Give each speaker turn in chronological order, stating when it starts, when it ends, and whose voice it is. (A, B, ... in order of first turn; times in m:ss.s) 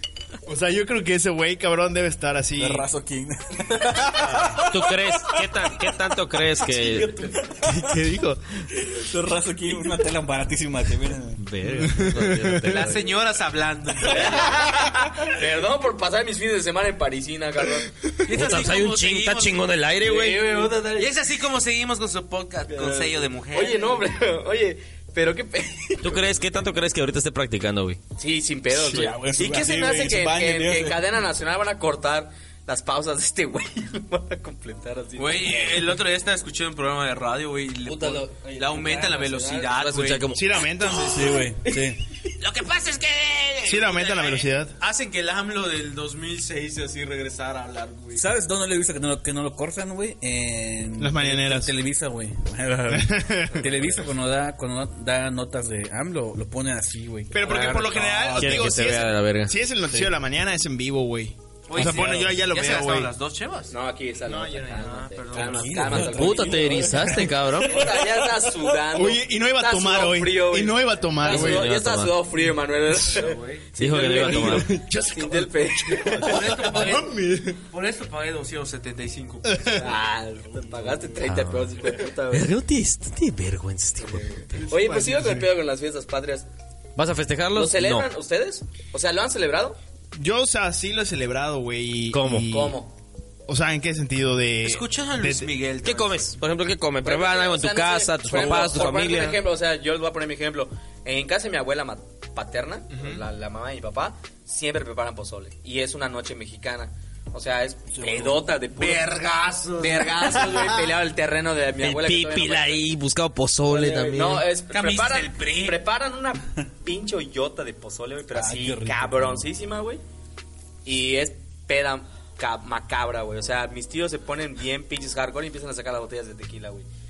0:00.4-0:02.9 A
0:02.6-0:06.0 B
0:04.6-0:08.7 C
0:06.8-0:07.6 D
0:06.9-0:08.0 B
0:08.7-0:11.4 B
0:11.4-0:13.1 C
0:11.6-0:12.8 A
0:12.6-0:14.8 E
0:14.0-0:17.9 D
0:18.2-0:24.1 E
0:18.3-0:20.6 C
0:20.1-0:21.1 D
0:22.7-0:26.4 D
0:26.0-0:28.0 C
0:28.2-0:36.0 D
0:28.7-0:31.0 B
0:35.2-0:41.2 E
0:37.8-0:39.9 D
0:39.8-0:40.6 C
0:40.3-0:41.4 A
0:41.1-0:42.0 B
0:41.6-0:41.9 D
0:42.4-0:48.2 E
0:43.7-0:44.8 A
0:48.1-0:58.8 B
0:51.0-0:51.7 A
0:52.9-0:53.8 A
0:57.3-1:03.1 A
0:58.4-0:59.6 C
1:01.7-1:03.7 E
1:01.8-1:02.3 B
1:03.7-1:16.9 D
1:04.3-1:06.1 E
1:05.3-1:07.9 B
1:06.0-1:08.0 C
1:08.9-1:11.7 A
1:11.2-1:12.2 C
1:13.1-1:13.7 E
1:13.8-1:14.7 C
1:14.2-1:17.6 A
1:16.2-1:17.1 E
1:17.7-1:19.9 E
1:19.5-1:19.8 A
1:19.7-1:22.5 D
1:21.2-1:24.6 C
1:24.0-1:26.5 D
1:24.6-1:25.5 A
1:27.0-1:28.1 C
1:27.5-1:29.8 D
1:30.2-1:32.8 A
1:32.1-1:32.5 C
1:32.4-1:32.9 D
1:33.5-1:35.5 A
1:34.6-1:36.4 E
1:35.8-1:39.4 C
1:37.0-1:49.2 D
1:42.9-1:43.2 E
1:47.9-1:48.4 B
1:48.8-1:50.6 E
1:49.8-1:52.9 D
1:51.8-1:54.5 C
1:53.7-2:00.0 D
1:54.7-1:55.8 E
1:58.3-1:59.5 B
2:00.8-2:06.9 D